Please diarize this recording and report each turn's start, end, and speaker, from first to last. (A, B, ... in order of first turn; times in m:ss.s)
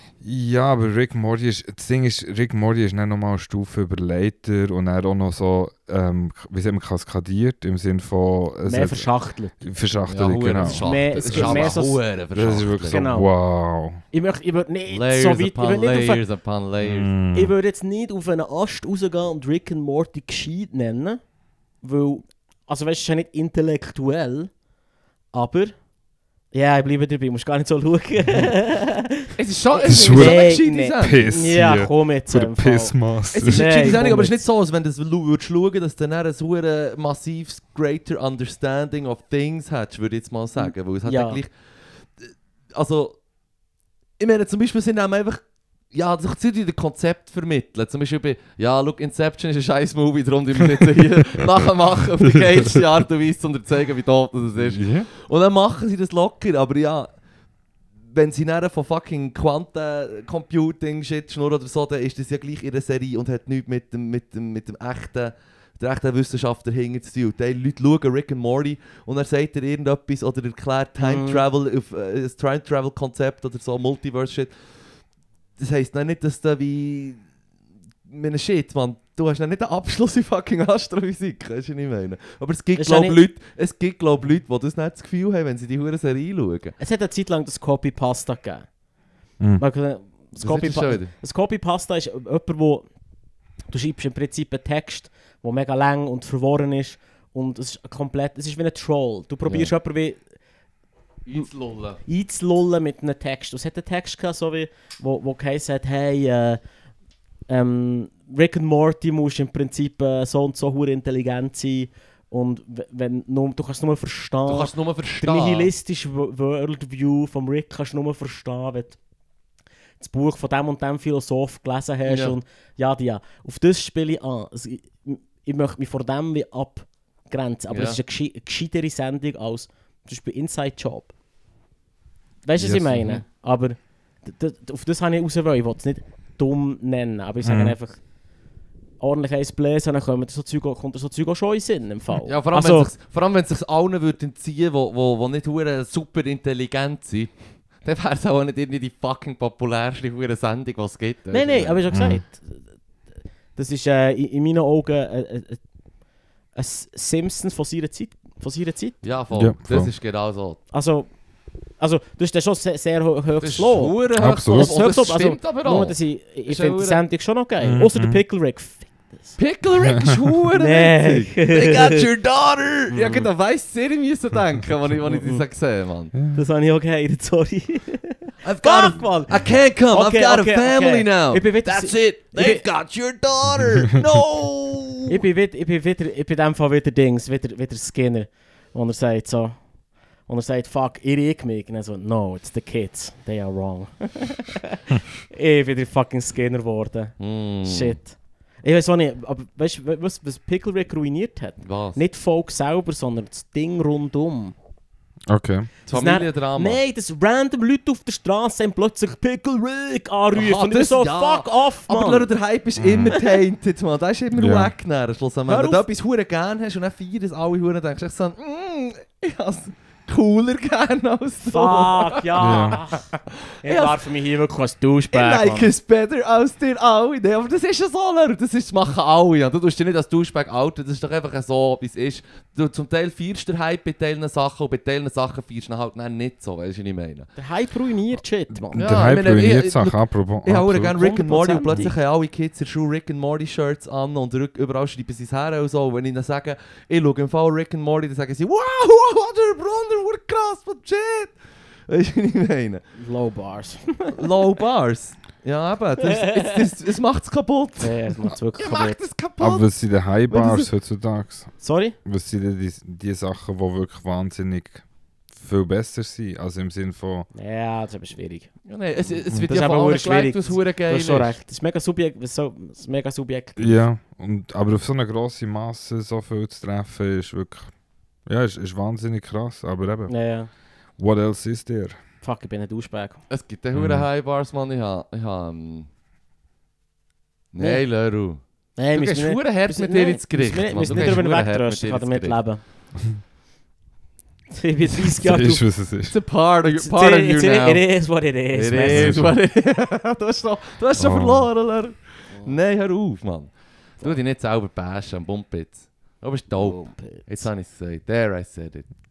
0:00.2-0:09.1 A
0:08.7-0:09.6 B
0:09.6-0:11.8 A
0:10.1-0:13.0 C
0:10.6-0:12.0 B
0:12.3-0:14.0 A
0:12.8-0:13.3 B
0:14.1-0:16.2 B
0:14.9-0:17.1 C
0:16.8-0:17.6 A
0:17.3-0:21.2 B
0:21.8-0:24.5 B
0:25.3-0:25.8 B
0:26.5-0:34.5 B
0:29.4-0:31.4 C
0:29.9-0:33.7 A
0:33.3-0:41.5 C
0:40.6-0:41.4 B
0:42.2-0:43.2 C
0:44.2-0:45.4 C
0:45.9-0:57.1 C
0:52.2-0:52.8 A
0:54.6-0:55.1 A
0:58.1-1:14.6 C
1:11.0-1:11.4 B
1:15.6-1:17.2 C
1:18.1-1:26.8 C
1:22.8-1:23.2 B
1:26.8-1:28.7 B
1:29.6-1:32.9 B
1:30.4-1:31.1 C
1:33.7-1:40.2 B
1:39.5-1:39.7 C
1:41.3-1:42.0 C
1:42.0-1:46.6 B
1:47.5-1:59.0 B
1:54.5-1:55.7 C
2:00.0-2:11.1 B
2:02.0-2:02.4 C
2:07.7-2:08.0 C
2:12.4-2:18.0 B
2:12.6-2:13.2 A
2:17.4-2:17.8 A
2:19.0-2:22.9 B
2:22.2-2:31.8 C
2:31.3-2:32.6 B
2:31.9-2:32.2 A
2:33.6-2:35.6 B
2:36.6-2:39.0 B
2:39.0-2:40.6 C
2:39.3-2:39.9 A
2:40.7-2:41.1 B
2:41.8-2:49.4 B
2:43.4-2:47.0 C
2:44.2-2:44.7 A
2:47.6-2:48.2 A
2:49.4-2:56.1 C
2:50.6-2:52.0 B
2:52.9-2:53.3 B
2:55.1-2:55.4 B
2:56.1-2:56.4 A
2:56.3-3:02.7 B
2:58.4-3:05.2 C
3:05.1-3:09.6 B
3:10.3-3:24.6 B
3:17.2-3:18.0 C
3:21.6-3:22.0 C
3:25.3-3:25.7 A
3:25.9-3:26.8 C
3:25.9-3:32.3 B
3:30.3-3:43.0 C
3:32.8-3:33.2 A
3:33.1-3:33.4 B
3:34.4-3:34.7 A
3:35.5-3:35.8 B
3:41.5-3:43.1 B
3:42.4-3:42.8 A
3:43.6-3:45.7 B
3:43.6-3:44.0 C
3:45.1-3:57.3 C
3:57.4-3:58.9 B
3:58.6-4:01.0 A
3:58.8-4:11.4 C
4:01.0-4:01.9 B
4:11.9-4:12.8 C
4:13.0-4:14.4 B
4:14.1-4:19.7 C
4:16.1-4:16.6 B
4:17.8-4:19.0 B
4:19.4-4:21.5 A
4:20.3-4:20.7 C
4:21.6-4:22.0 B
4:22.0-4:27.3 A
4:27.3-4:28.5 B
4:28.7-4:31.4 C
4:29.5-4:33.8 B
4:33.6-4:37.7 A
4:38.3-4:40.1 A
4:40.1-4:40.5 B
4:41.0-4:42.0 A
4:42.2-4:43.2 B
4:43.3-4:45.9 C
4:43.7-4:44.1 A
4:47.5-4:48.4 C
4:47.6-4:47.8 B
4:48.8-4:52.6 B
4:48.9-4:52.4 C
4:50.9-4:51.2 A
4:54.5-4:55.6 B
4:55.2-4:56.2 A
4:56.1-4:57.8 C
4:56.7-4:59.3 B
4:58.5-5:08.9 C
4:58.9-4:59.4 A
5:01.0-5:01.5 A
5:02.3-5:02.6 B
5:06.6-5:07.5 B